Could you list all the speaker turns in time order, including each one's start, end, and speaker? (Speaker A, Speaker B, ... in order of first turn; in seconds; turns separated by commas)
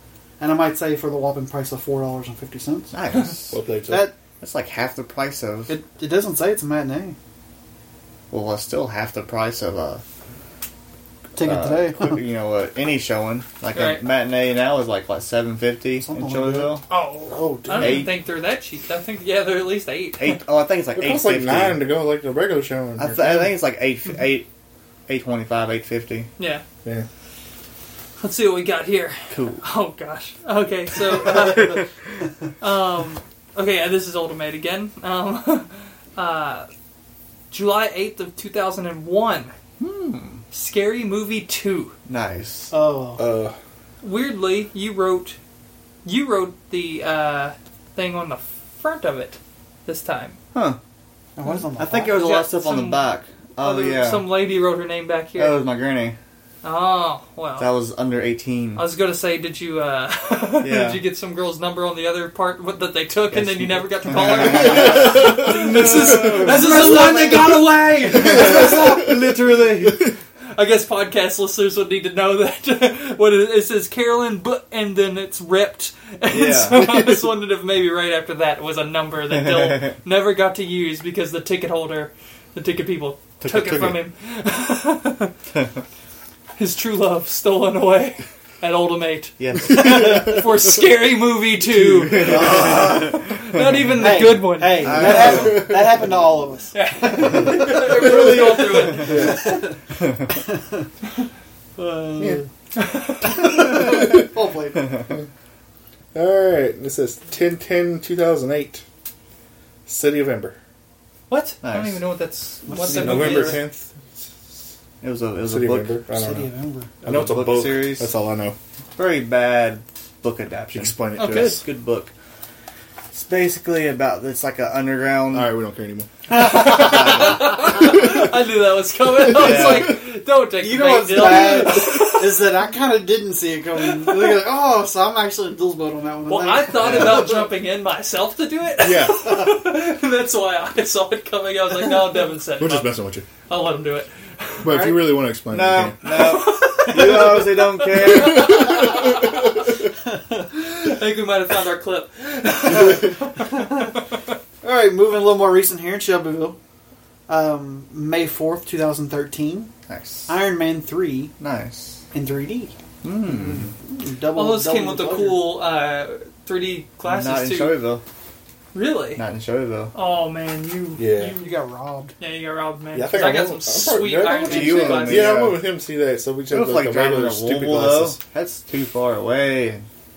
Speaker A: 0.4-2.9, Speaker B: 2.9-3.6, Speaker C: 3.5-4.1, Speaker A: 3.9-4.2, Speaker B: 4.4-5.8, Speaker A: 5.7-7.2, Speaker B: 8.3-10.0, Speaker A: 11.4-12.2, Speaker B: 11.4-16.9, Speaker D: 13.7-14.0, Speaker A: 16.0-16.8, Speaker D: 16.9-20.2, Speaker C: 17.3-18.1, Speaker B: 17.7-18.2, Speaker B: 20.2-21.8, Speaker C: 21.0-23.6, Speaker B: 23.0-24.5, Speaker B: 25.1-26.3, Speaker D: 26.4-26.6, Speaker D: 28.2-31.9, Speaker B: 29.3-29.6, Speaker B: 31.3-31.9, Speaker D: 32.6-36.7, Speaker D: 37.5-39.5, Speaker B: 39.8-40.4, Speaker D: 40.5-41.9, Speaker B: 42.1-42.7, Speaker A: 42.7-43.2, Speaker C: 43.2-43.6, Speaker D: 44.0-45.4, Speaker D: 46.0-50.4, Speaker B: 50.5-50.8, Speaker A: 51.4-52.2, Speaker B: 51.8-54.3, Speaker D: 52.1-53.1, Speaker D: 53.6-55.6, Speaker B: 55.4-56.2, Speaker D: 56.6-57.7, Speaker B: 57.6-58.9, Speaker D: 58.8-69.0, Speaker B: 60.6-61.0, Speaker B: 63.3-70.1, Speaker C: 64.8-65.5, Speaker A: 65.5-69.1, Speaker D: 70.5-85.3, Speaker B: 76.3-76.9, Speaker B: 79.3-80.0, Speaker B: 83.5-84.0, Speaker D: 86.6-95.5, Speaker B: 89.4-90.3, Speaker B: 91.8-93.9, Speaker A: 92.2-93.2, Speaker A: 94.0-99.8, Speaker B: 94.7-95.7, Speaker D: 96.7-99.4, Speaker B: 97.7-99.4, Speaker C: 99.0-99.6, Speaker A: 100.3-100.9, Speaker A: 101.8-102.5, Speaker D: 102.8-103.5, Speaker A: 103.2-105.2, Speaker B: 103.6-104.0, Speaker C: 103.7-104.2, Speaker C: 106.1-108.8, Speaker C: 109.9-110.6, Speaker D: 111.3-113.6, Speaker B: 111.6-112.0, Speaker A: 112.7-113.6, Speaker C: 112.8-114.2, Speaker B: 115.0-116.0, Speaker C: 115.5-116.5, Speaker A: 116.1-117.0, Speaker C: 117.0-118.6, Speaker B: 117.0-118.1, Speaker B: 119.0-122.1, Speaker C: 120.7-121.6, Speaker D: 121.2-121.6, Speaker B: 123.1-125.5, Speaker C: 125.3-126.1, Speaker A: 126.3-127.5, Speaker D: 126.3-132.4, Speaker B: 126.7-127.5, Speaker B: 129.3-130.0, Speaker C: 129.3-129.8, Speaker A: 130.6-137.5, Speaker D: 136.3-142.9, Speaker C: 138.8-139.4, Speaker C: 142.6-143.3, Speaker D: 143.5-144.1, Speaker C: 144.6-146.0, Speaker A: 144.7-145.1, Speaker B: 145.5-149.0, Speaker D: 146.0-149.4, Speaker D: 150.6-153.7, Speaker A: 152.7-153.9, Speaker A: 154.6-156.6, Speaker A: 157.3-159.7, Speaker B: 159.9-160.4, Speaker A: 160.3-161.3, Speaker B: 161.4-162.0, Speaker A: 162.1-162.7, Speaker B: 163.0-163.7, Speaker A: 163.3-165.5, Speaker D: 164.3-167.8, Speaker B: 167.0-168.0, Speaker D: 168.7-169.2, Speaker B: 169.2-169.9, Speaker D: 169.9-171.5, Speaker C: 171.0-171.4, Speaker A: 171.3-172.2, Speaker D: 172.2-175.4, Speaker C: 172.9-178.2, Speaker B: 174.4-175.7, Speaker B: 176.5-179.9